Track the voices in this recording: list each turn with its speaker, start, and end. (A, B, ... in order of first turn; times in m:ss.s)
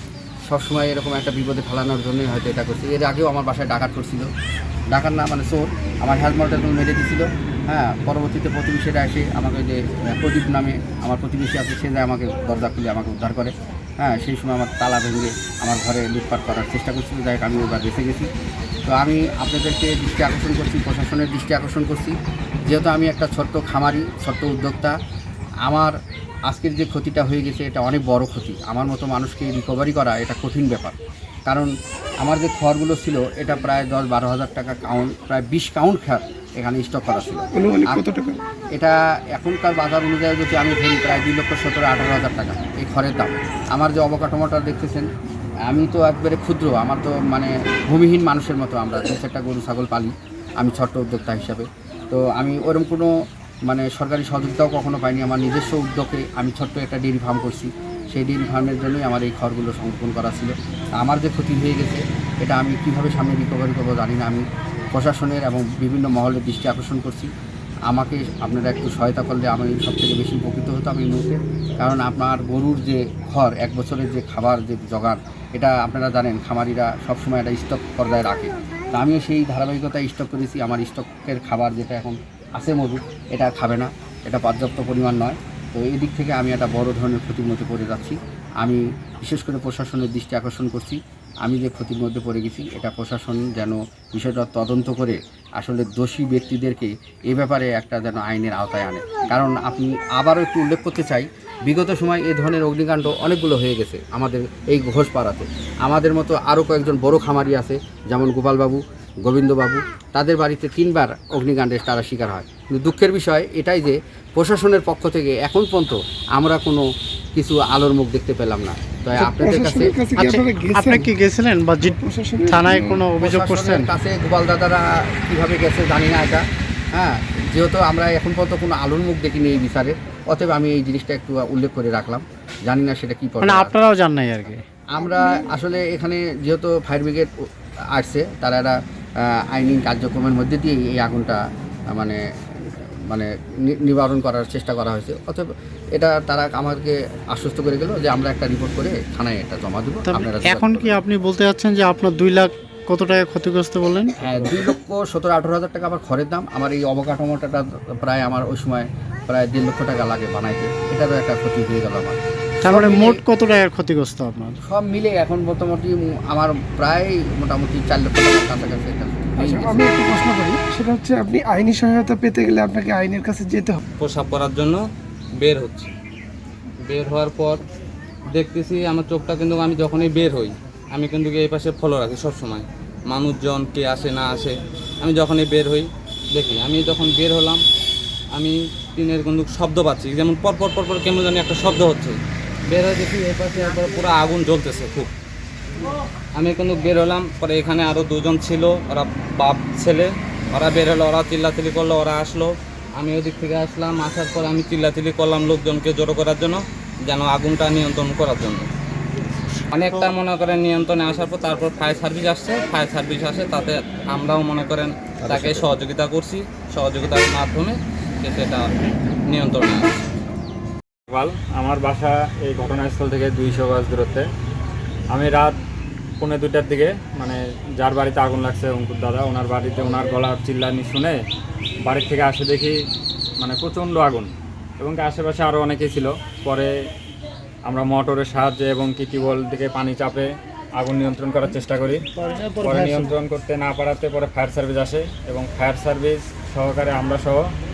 0:00.4-0:04.3 A
0:04.9-0:18.3 A
0:18.9-0:22.1 A
0:22.6-0:24.9 A
0:25.6-0:25.9 A
0:26.4-0:38.0 A
0:37.5-0:38.4 B
0:38.7-0:45.1 A
0:45.6-0:53.1 A
0:53.6-1:07.3 A
1:07.9-1:59.9 A
1:59.2-2:01.1 B
2:00.2-2:01.9 C
2:01.8-2:02.9 B
2:02.5-2:03.9 C
2:02.6-2:13.8 A
2:13.4-2:14.6 C
2:14.9-2:17.3 A
2:17.9-2:31.0 A
2:30.1-2:34.1 C
2:34.2-2:43.2 A
2:42.6-2:44.5 C
2:44.6-2:50.0 A
2:49.4-2:53.8 B
2:54.0-2:54.8 D
2:55.4-2:55.9 D
2:56.9-2:57.6 D
2:58.3-3:07.6 D
3:08.3-3:12.2 D
3:12.7-3:15.1 D
3:16.4-3:28.7 D
3:29.7-3:38.7 D
3:35.2-3:35.7 A
3:39.3-3:39.9 D
3:41.1-3:44.2 E
3:45.1-3:45.6 E
3:46.2-3:51.2 E
3:51.9-3:52.8 E
3:53.4-3:56.7 E
3:57.6-4:02.0 E
4:02.6-4:07.4 E